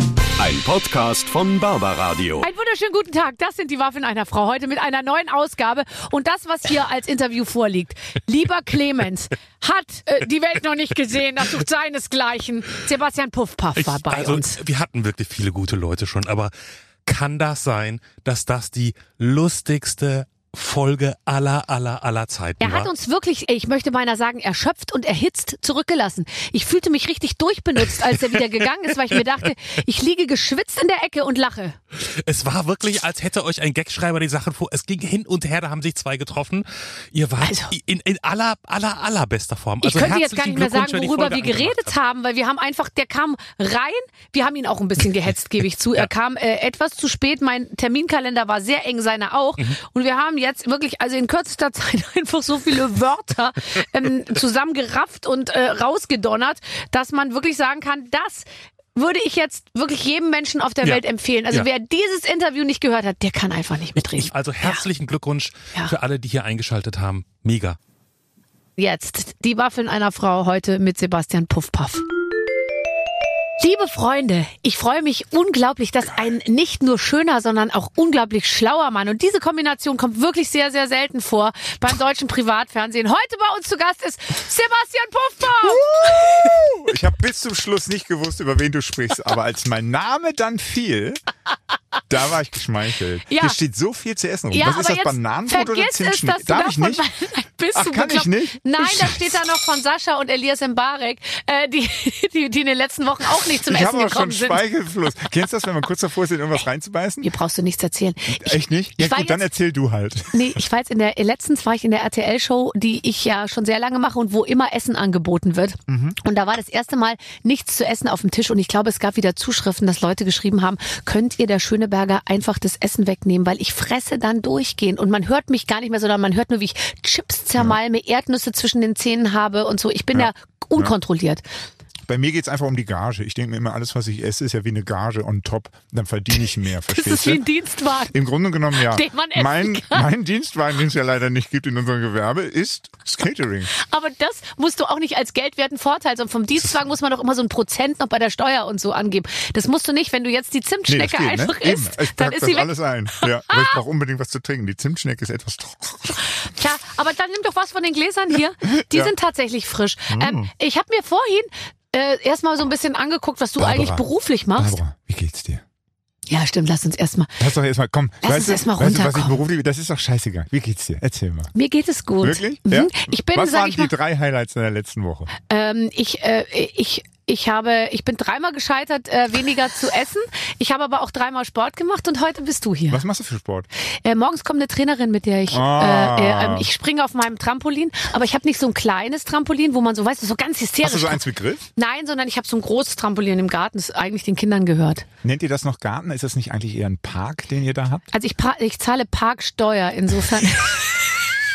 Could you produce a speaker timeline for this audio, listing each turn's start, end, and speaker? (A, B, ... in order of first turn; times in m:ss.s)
0:00.4-0:02.5 A
0:02.4-0:14.6 B
0:13.8-0:16.5 C
0:17.1-0:22.9 C
0:22.6-0:31.8 B
0:31.9-0:41.9 C
0:37.4-0:37.8 B
0:39.8-1:04.8 B
1:00.8-1:01.7 C
1:04.0-1:07.8 C
1:08.8-1:12.1 B
1:13.6-1:26.6 B
1:25.6-1:31.2 D
1:32.1-1:37.1 D
1:33.3-1:33.6 B
1:34.5-1:44.6 B
1:37.7-1:39.3 D
1:43.6-1:47.3 D
1:47.2-1:49.4 B
1:48.3-1:50.6 D
1:50.3-2:11.4 B
1:55.9-1:56.2 D
2:10.1-2:11.0 D
2:12.1-2:17.4 D
2:16.9-2:18.2 B
2:18.1-2:23.7 D
2:18.8-2:20.1 B
2:23.7-2:33.8 B
2:30.9-2:36.3 D
2:36.2-2:44.8 B
2:38.8-2:39.1 D
2:40.1-2:40.5 D
2:43.6-2:45.6 D
2:46.3-2:47.4 B
2:47.4-2:51.5 D
2:48.2-2:49.4 B
2:51.5-2:53.9 B
2:52.2-2:55.3 D
2:55.4-3:03.0 B
3:02.9-3:03.7 D
3:04.0-3:11.2 B
3:05.5-3:06.7 D
3:10.8-3:11.7 D
3:11.8-3:15.1 B
3:15.2-3:18.1 D
3:18.1-3:20.9 B